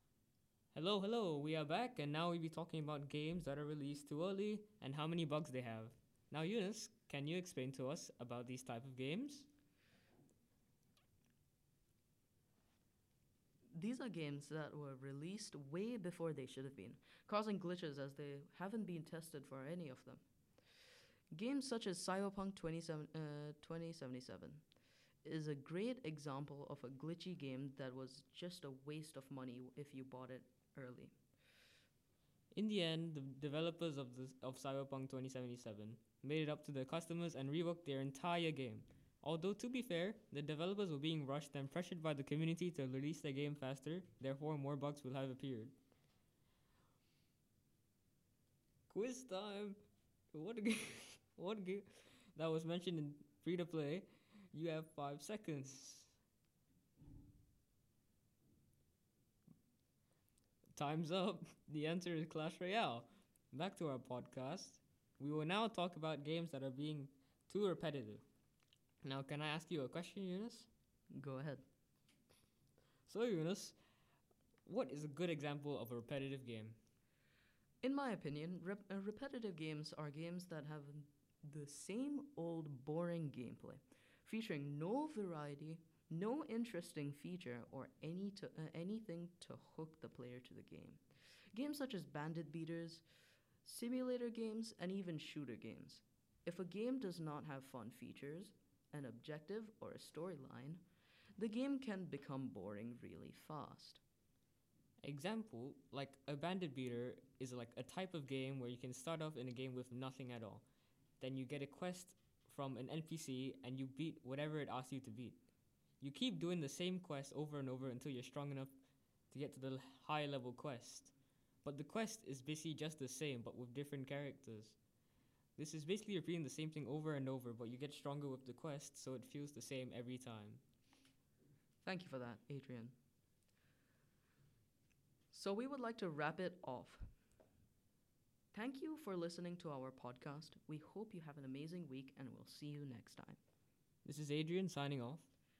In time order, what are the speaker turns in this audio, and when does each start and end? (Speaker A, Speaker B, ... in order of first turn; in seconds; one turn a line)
Speaker A: 0.7-9.5
Speaker B: 13.7-20.2
Speaker B: 21.3-24.6
Speaker B: 25.2-31.2
Speaker A: 32.5-45.7
Speaker A: 48.9-49.8
Speaker A: 50.3-56.1
Speaker A: 60.7-68.2
Speaker A: 69.0-70.7
Speaker B: 71.1-71.6
Speaker A: 73.1-73.8
Speaker A: 74.7-76.8
Speaker B: 77.8-91.0
Speaker B: 91.5-93.0
Speaker B: 93.6-100.8
Speaker B: 101.4-104.0
Speaker A: 105.0-110.6
Speaker A: 111.2-115.4
Speaker A: 116.0-118.7
Speaker A: 119.3-124.8
Speaker A: 125.5-130.6
Speaker B: 131.8-132.9
Speaker B: 135.3-137.1
Speaker B: 138.5-143.4
Speaker A: 144.0-145.2